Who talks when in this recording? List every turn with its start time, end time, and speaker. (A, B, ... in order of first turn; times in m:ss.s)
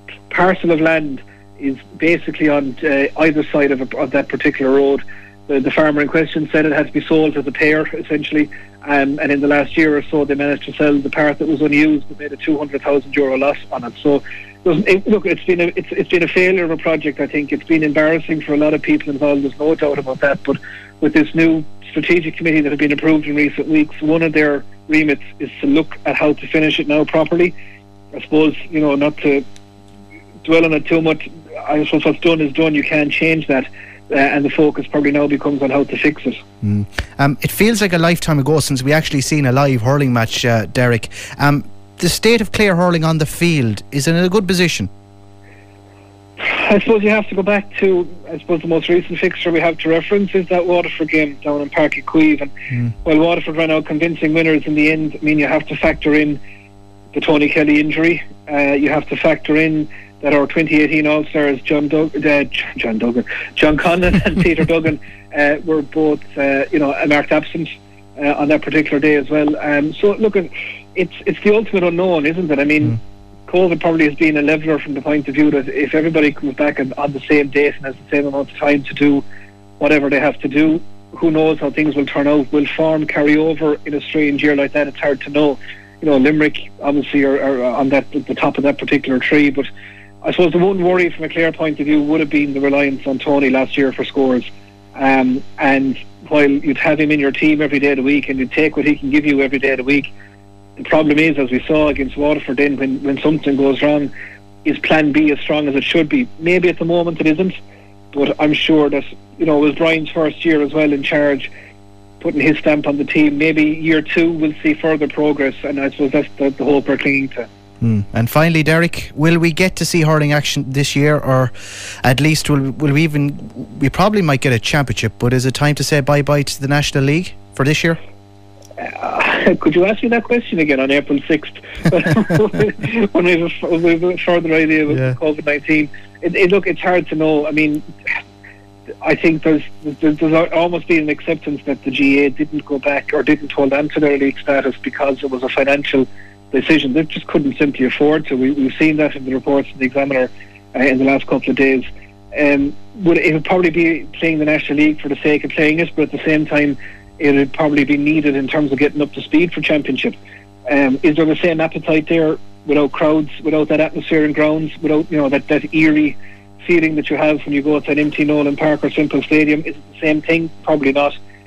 0:00.3-0:27.5 A
0:28.2-0:29.4 A
0:30.4-0:36.4 A
0:36.6-0:44.9 B
0:46.4-0:52.5 A
0:53.0-0:56.4 A
0:57.1-1:19.2 A
1:19.8-1:29.7 A
1:30.2-1:40.1 A
1:40.8-1:44.1 A
1:44.6-1:47.5 A
1:48.1-1:51.5 A
1:52.2-1:57.5 A
1:57.8-2:08.0 B
2:08.8-2:17.8 A
2:14.9-2:15.2 B
2:19.0-2:40.2 A
2:40.7-2:51.2 A